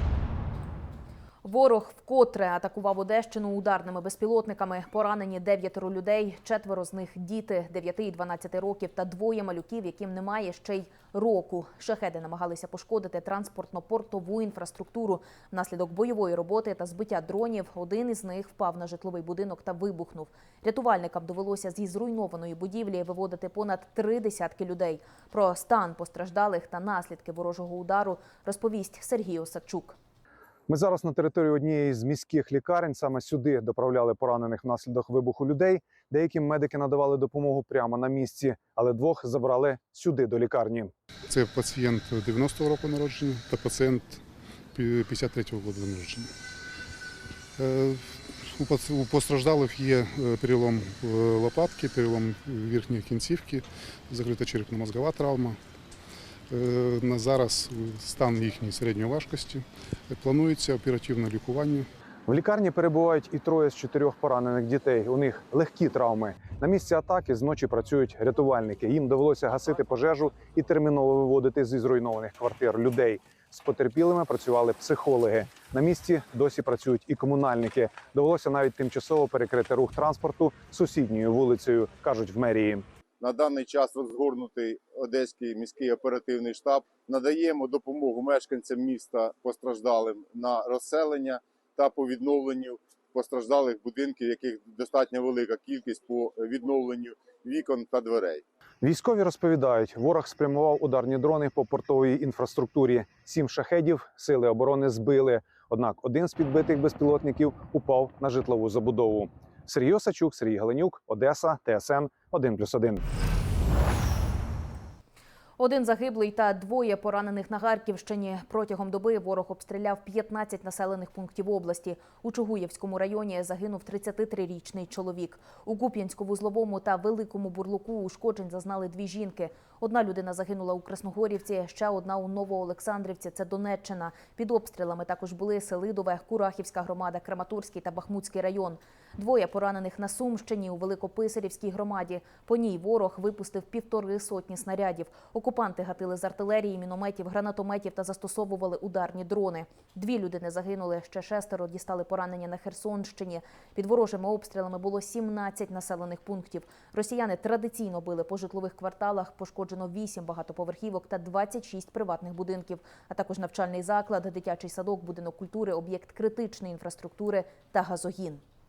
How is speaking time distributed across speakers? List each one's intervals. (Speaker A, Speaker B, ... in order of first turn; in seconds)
Speaker A: 1.4-30.0, 115.6-168.4
Speaker B: 30.7-40.9, 62.3-82.8, 98.8-113.0
Speaker C: 41.3-44.2, 44.8-46.3, 47.6-55.6, 56.5-61.9
Speaker D: 83.2-98.4